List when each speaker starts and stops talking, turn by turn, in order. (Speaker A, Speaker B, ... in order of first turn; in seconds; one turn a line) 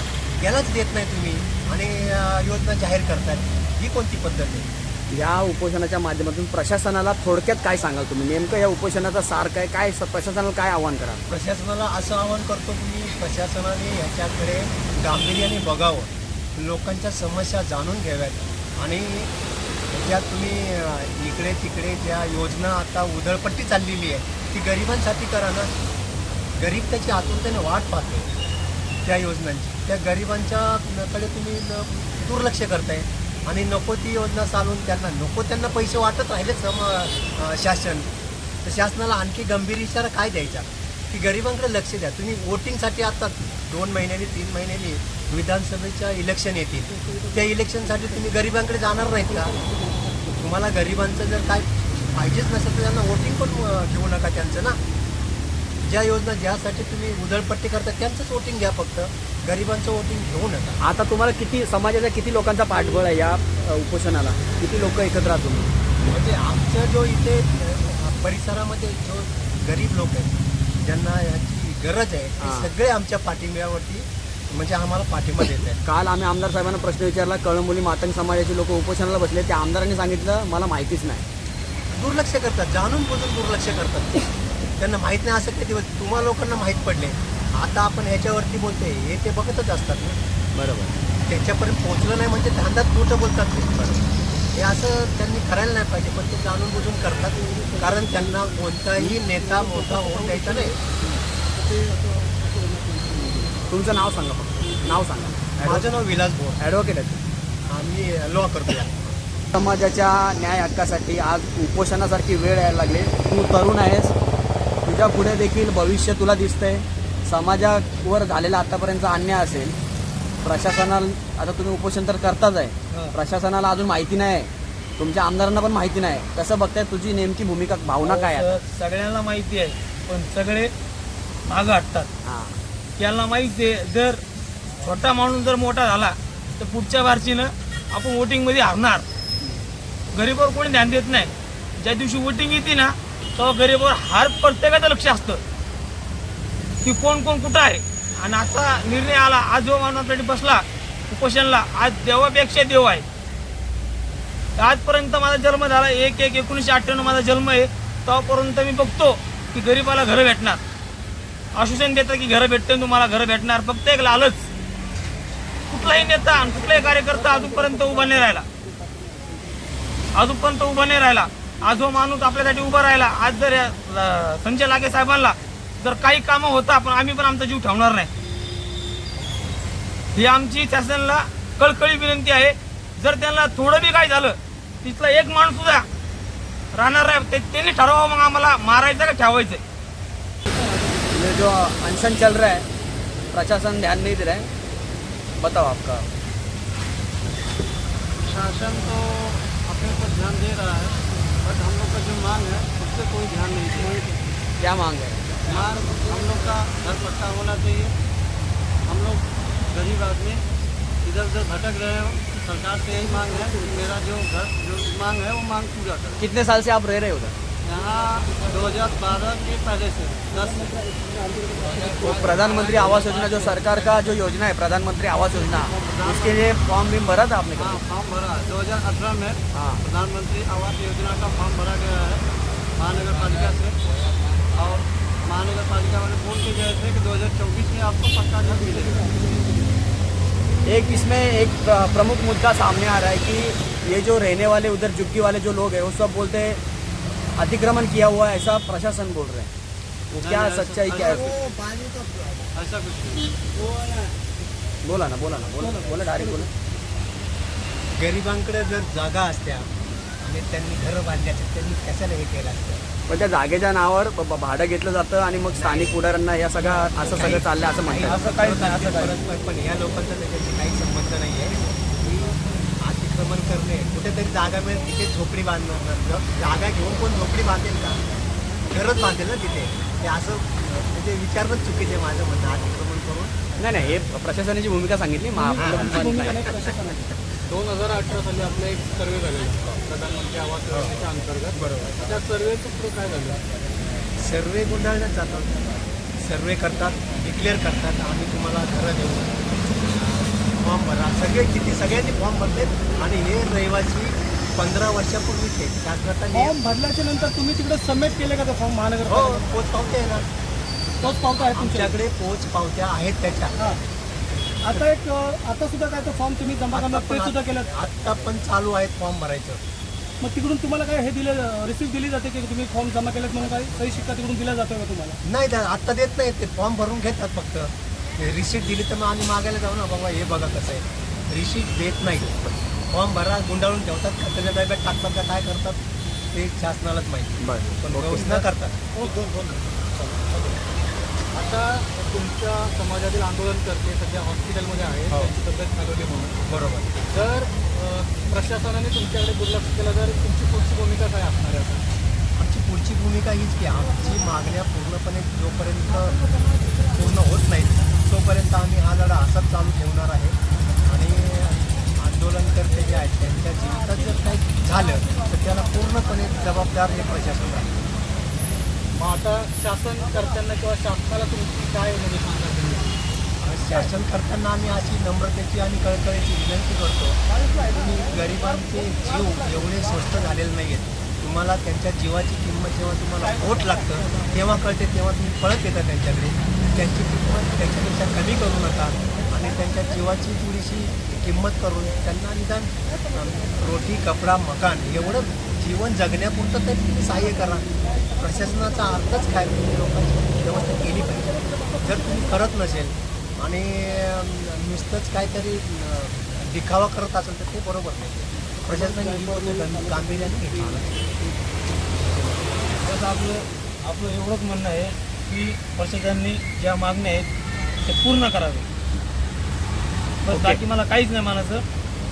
Speaker A: 0.4-4.7
Speaker B: 5.1-11.3
Speaker A: 11.3-19.3
Speaker A: 19.9-25.7
Speaker A: 26.6-28.3
Speaker A: 29.0-38.1
Speaker A: 38.6-49.6
Speaker C: 49.6-50.1
Speaker A: 50.4-54.8
Speaker A: 55.8-60.8
Speaker B: 60.8-65.7
Speaker A: 66.0-75.8
Speaker B: 72.4-72.7
Speaker B: 75.8-81.2
Speaker A: 81.9-84.2
Speaker A: 84.8-90.2
Speaker B: 90.5-91.0
Speaker A: 91.3-93.7
Speaker B: 93.8-94.1
Speaker A: 94.5-100.8
Speaker C: 99.1-100.9
Speaker C: 101.6-103.3
Speaker B: 103.3-105.9
Speaker A: 105.6-106.6
Speaker B: 106.6-107.2
Speaker A: 107.7-109.1
Speaker B: 109.5-114.1
Speaker B: 114.9-119.8
Speaker B: 120.4-128.5
Speaker D: 128.0-130.7
Speaker D: 131.5-132.1
Speaker B: 132.2-132.6
Speaker D: 133.0-134.2
Speaker D: 134.8-139.1
Speaker D: 140.1-145.4
Speaker D: 146.8-153.1
Speaker D: 154.6-160.6
Speaker D: 161.6-164.5
Speaker D: 165.7-168.5
Speaker C: 165.9-169.7
Speaker D: 170.2-178.1
Speaker D: 180.1-185.9
Speaker D: 186.8-189.6
Speaker B: 191.1-192.7
Speaker B: 193.3-194.5
Speaker B: 195.4-196.1
Speaker E: 198.2-204.0
Speaker B: 204.6-205.5
Speaker E: 205.4-207.9
Speaker C: 205.9-206.3
Speaker E: 208.9-210.4
Speaker E: 211.0-216.2
Speaker C: 212.9-213.8
Speaker B: 216.2-217.4
Speaker E: 217.6-220.7
Speaker C: 220.3-222.6
Speaker B: 222.0-227.8
Speaker E: 222.6-223.4
Speaker E: 225.5-226.6
Speaker E: 227.6-233.8
Speaker B: 229.5-229.8
Speaker E: 234.5-239.1
Speaker C: 238.7-239.6
Speaker B: 240.7-246.6
Speaker B: 247.4-249.5
Speaker B: 250.1-251.4
Speaker E: 250.2-251.4
Speaker E: 252.5-253.5
Speaker C: 253.7-254.1
Speaker B: 254.8-256.5
Speaker A: 257.9-259.7
Speaker A: 260.2-262.8
Speaker B: 263.1-268.2
Speaker A: 265.5-266.0
Speaker A: 266.6-278.0
Speaker D: 267.9-269.2
Speaker A: 278.7-284.1
Speaker B: 283.6-286.6
Speaker C: 285.4-287.1
Speaker A: 285.5-286.0
Speaker F: 287.5-293.4
Speaker A: 290.7-291.0
Speaker A: 291.5-292.0
Speaker A: 294.2-306.6
Speaker C: 306.3-309.4
Speaker A: 309.0-310.3
Speaker C: 311.0-311.9
Speaker A: 311.4-313.6
Speaker C: 314.6-317.7
Speaker A: 316.7-319.6
Speaker C: 320.2-325.2
Speaker A: 325.2-332.3
Speaker B: 332.1-332.6
Speaker A: 332.9-335.8
Speaker A: 336.3-338.8
Speaker B: 337.4-338.4
Speaker C: 338.9-340.6
Speaker F: 339.9-340.3
Speaker F: 341.4-345.6
Speaker C: 345.3-346.3
Speaker A: 346.5-346.9
Speaker C: 347.1-350.9
Speaker F: 348.1-351.8
Speaker A: 352.4-356.3
Speaker A: 356.9-367.9
Speaker F: 369.0-372.8
Speaker C: 369.2-373.0
Speaker A: 373.4-397.7
Speaker A: 398.2-411.0
Speaker C: 401.4-401.8
Speaker C: 408.7-410.6
Speaker A: 412.0-412.4
Speaker D: 412.8-417.3
Speaker D: 417.8-418.7
Speaker D: 420.2-421.6
Speaker B: 420.3-420.6